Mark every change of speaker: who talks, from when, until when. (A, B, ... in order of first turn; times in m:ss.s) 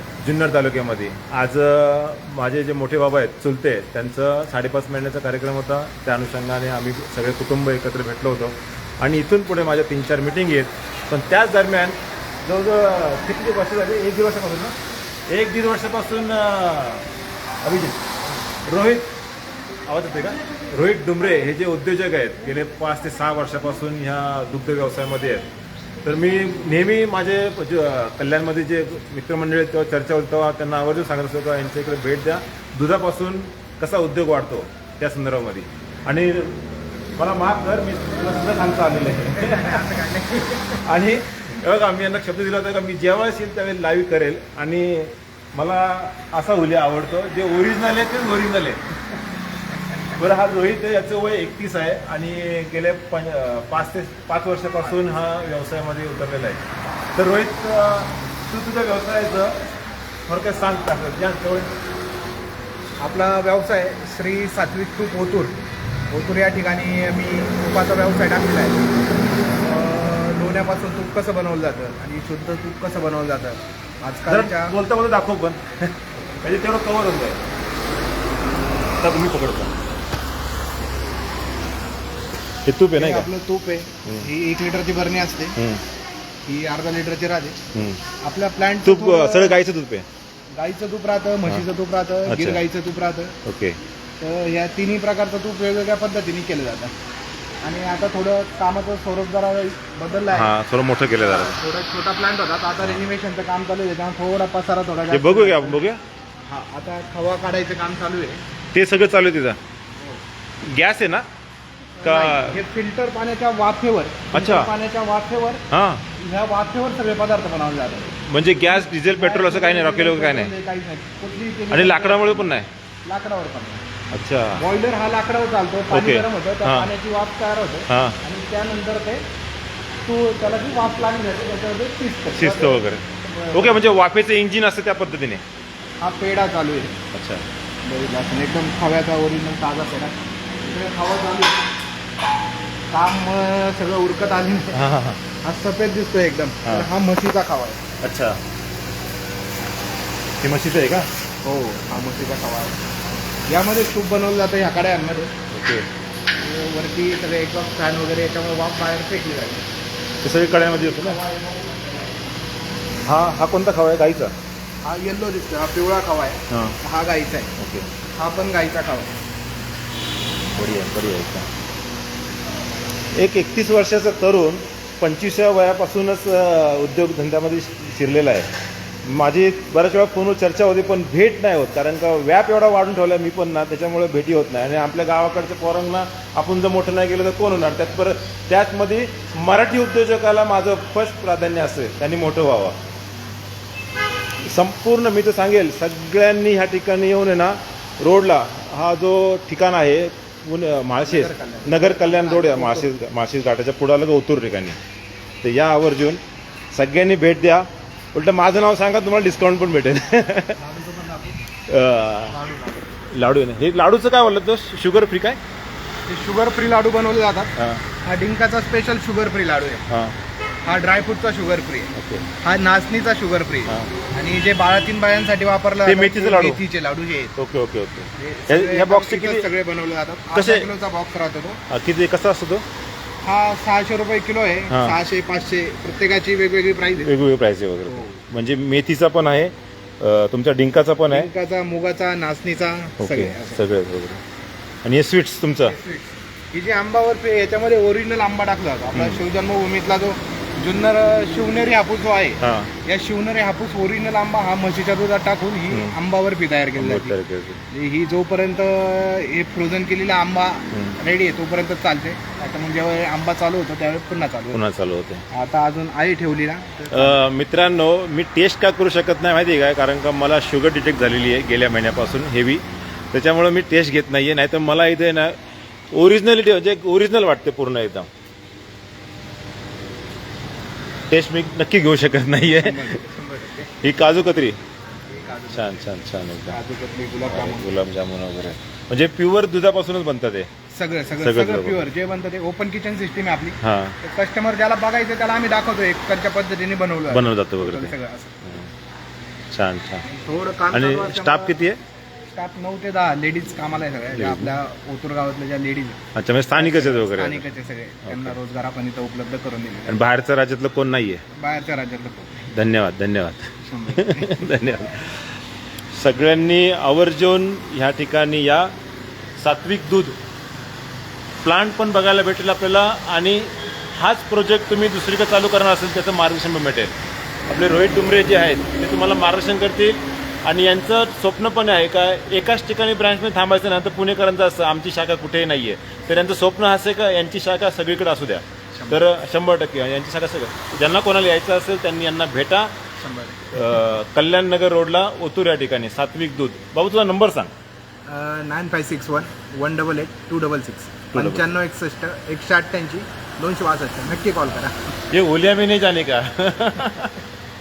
0:00.2-0:14.8 A
0:15.3-0:17.0 A
0:17.6-0:18.1 A
0:18.6-0:19.1 A
0:19.9-0:25.5 A
0:26.0-0:36.6 A
0:37.2-0:39.9 A
0:39.4-0:40.8 B
0:40.8-0:49.2 A
0:50.1-0:56.6 A
0:57.2-0:59.6 A
1:00.3-1:01.7 A
1:03.0-1:05.5 B
1:06.1-1:08.8 B
1:09.6-1:14.7 B
1:14.3-1:17.4 A
1:19.0-1:19.7 A
1:22.6-1:23.3 A
1:22.9-1:25.6 B
1:25.6-1:25.8 A
1:26.4-1:27.6 B
1:27.7-1:28.0 A
1:28.2-1:29.6 B
1:28.8-1:30.0 A
1:30.6-1:33.4 B
1:32.3-1:32.6 A
1:33.4-1:33.8 A
1:34.2-1:36.9 B
1:37.6-1:40.5 B
1:40.3-1:41.6 A
1:41.1-1:45.8 B
1:45.1-1:46.0 A
1:46.4-1:48.4 B
1:48.7-1:49.6 A
1:50.6-1:51.2 A
1:52.0-1:55.6 B
1:52.0-1:52.6 A
1:54.3-1:54.7 A
1:55.7-1:56.0 A
1:56.2-2:03.8 B
1:58.3-2:00.5 A
2:01.7-2:02.7 A
2:04.1-2:04.6 A
2:04.6-2:09.2 B
2:05.9-2:06.9 A
2:07.9-2:08.2 A
2:10.0-2:13.8 B
2:12.3-2:15.4 A
2:16.0-2:17.0 B
2:17.1-2:17.4 A
2:17.8-2:21.6 B
2:22.9-2:24.8 B
2:24.7-2:25.2 A
2:25.4-2:27.8 B
2:28.0-2:28.4 A
2:30.4-2:31.1 A
2:31.4-2:32.8 B
2:33.5-2:35.3 B
2:35.5-2:35.8 A
2:36.4-2:39.6 B
2:40.2-2:41.2 A
2:40.4-2:42.4 B
2:43.0-2:44.3 A
2:44.8-2:47.5 B
2:46.5-2:46.8 A
2:47.6-2:47.9 A
2:48.2-2:49.2 B
2:50.5-2:51.5 A
2:53.1-2:58.5 A
2:59.0-3:12.8 A
3:14.4-3:24.8 A
3:21.0-3:22.9 B
3:25.4-3:26.2 A
3:26.7-3:30.6 A
3:30.6-3:31.4 B
3:31.7-3:32.4 A
3:32.3-3:33.0 B
3:33.1-3:35.4 A
3:36.1-3:37.5 B
3:37.6-3:37.8 A
3:38.0-3:39.8 B
3:39.9-3:40.2 A
3:40.6-3:47.3 B
3:42.0-3:42.2 A
3:45.8-3:46.6 A
3:47.4-3:49.5 A
3:48.2-3:51.6 B
3:50.3-3:50.7 A
3:51.7-3:52.6 A
3:53.2-3:57.1 B
3:54.7-3:55.0 A
3:57.0-4:01.3 A
3:57.9-3:58.2 B
4:01.1-4:03.6 B
4:03.0-4:04.2 A
4:04.8-4:05.8 A
4:05.6-4:17.1 B
4:08.9-4:09.2 A
4:12.4-4:12.7 A
4:16.8-4:17.6 A
4:17.7-4:24.6 B
4:20.7-4:21.0 A
4:24.5-4:25.2 A
4:25.3-4:27.2 B
4:26.9-4:35.4 A
4:35.9-4:38.1 A
4:41.1-4:43.0 A
4:42.6-4:43.7 B
4:43.8-4:44.6 A
4:45.1-4:45.9 B
4:45.5-4:46.6 A
4:46.5-4:47.7 B
4:47.3-4:50.5 A
4:50.7-4:58.4 B
4:51.2-4:51.9 A
4:53.6-4:54.0 A
4:57.1-4:57.9 A
4:59.5-5:00.0 A
5:00.1-5:01.6 B
5:00.7-5:01.8 A
5:02.3-5:06.0 B
5:04.1-5:04.5 A
5:06.1-5:07.4 A
5:06.5-5:10.0 B
5:08.1-5:08.3 A
5:09.9-5:11.2 A
5:11.3-5:12.4 B
5:12.5-5:15.4 A
5:13.6-5:14.3 B
5:15.9-5:18.7 A
5:19.4-5:20.2 A
5:21.4-5:26.9 A
5:27.5-5:42.7 A
5:38.7-5:39.0 B
5:43.0-5:43.5 B
5:43.5-5:47.5 A
5:48.0-5:54.9 B
5:51.1-5:51.4 A
5:55.1-5:57.2 A